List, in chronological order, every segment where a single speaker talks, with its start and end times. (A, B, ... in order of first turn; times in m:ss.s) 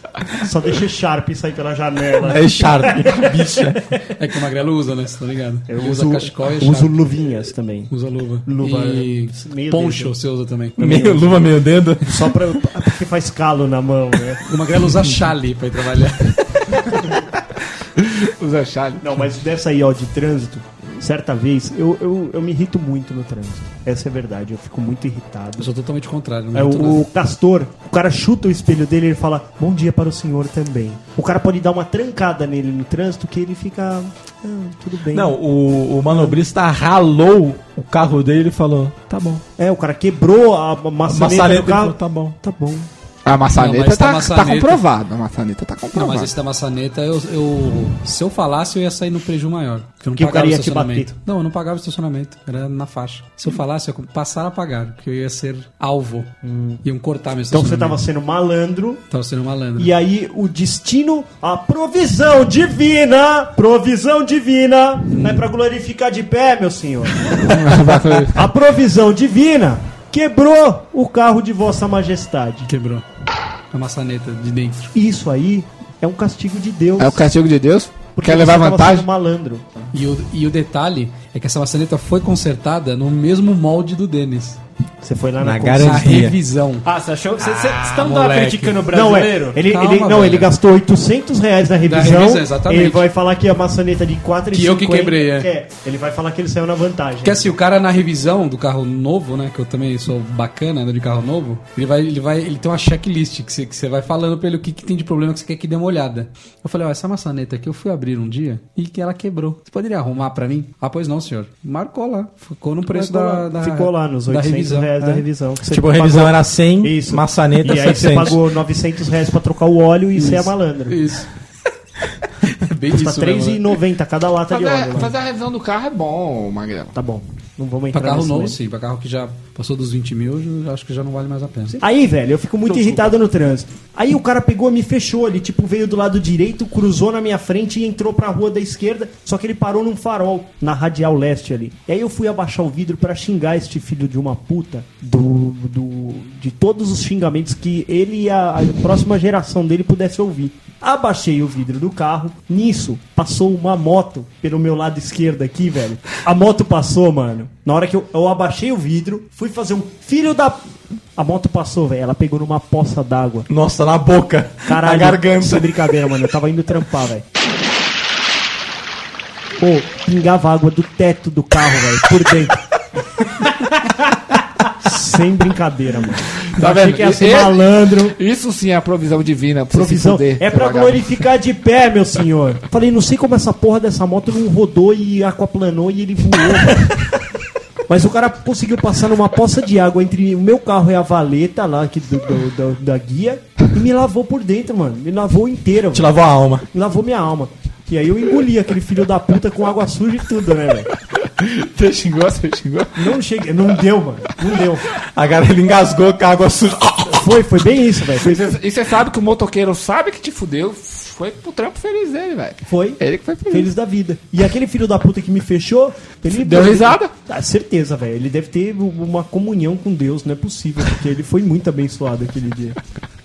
0:00.3-0:03.6 A
0:02.2-0:03.8 B
0:04.2-0:07.0 C
0:05.7-0:07.9 A
0:07.9-0:10.8 C
0:08.4-0:10.1 A
0:10.8-0:14.4 A
0:10.8-0:12.4 B
0:14.5-0:16.8 C
0:18.2-0:19.0 D
0:19.0-0:25.7 A
0:25.6-0:27.0 C
0:26.5-0:35.4 A
0:35.1-0:39.4 B
0:36.1-0:36.4 A
0:39.6-0:42.9 A
0:41.1-0:42.4 B
0:43.2-0:46.3 D
0:43.6-0:44.8 C
0:45.9-0:56.3 C
0:50.2-0:51.1 A
0:56.4-0:56.8 A
0:56.8-0:58.0 C
0:57.5-0:59.0 A
0:59.1-0:59.9 C
0:59.8-1:12.7 A
1:05.1-1:05.5 C
1:07.4-1:08.5 D
1:12.7-1:13.0 C
1:13.7-1:14.9 C
1:14.9-1:17.2 A
1:17.0-1:19.1 D
1:18.1-1:19.6 A
1:19.9-1:24.6 C
1:25.0-1:26.2 A
1:25.4-1:26.4 B
1:25.8-1:26.8 C
1:26.8-1:29.6 E
1:27.8-1:28.8 C
1:28.9-1:37.5 A
1:29.7-1:30.5 C
1:31.8-1:33.0 C
1:34.5-1:35.5 C
1:37.2-1:55.2 C
1:52.9-2:01.0 A
1:55.7-1:58.4 B
2:00.1-2:01.3 C
2:02.5-2:03.7 C
2:02.9-2:05.1 A
2:04.5-2:07.0 D
2:06.9-2:08.6 A
2:07.9-2:11.8 C
2:11.8-2:43.5 A
2:12.7-2:13.0 C
2:43.5-2:45.7 B
2:44.7-2:47.2 A
2:49.6-2:52.6 A
2:54.8-2:58.2 A
2:56.5-3:01.1 D
2:59.7-3:07.1 A
3:07.9-3:16.2 A
3:15.9-3:16.6 B
3:16.7-3:20.9 A
3:21.4-3:23.1 D
3:23.0-3:24.9 A
3:25.1-3:27.3 B
3:27.1-3:28.6 A
3:28.2-3:33.7 D
3:32.7-3:42.8 A
3:36.3-3:37.1 D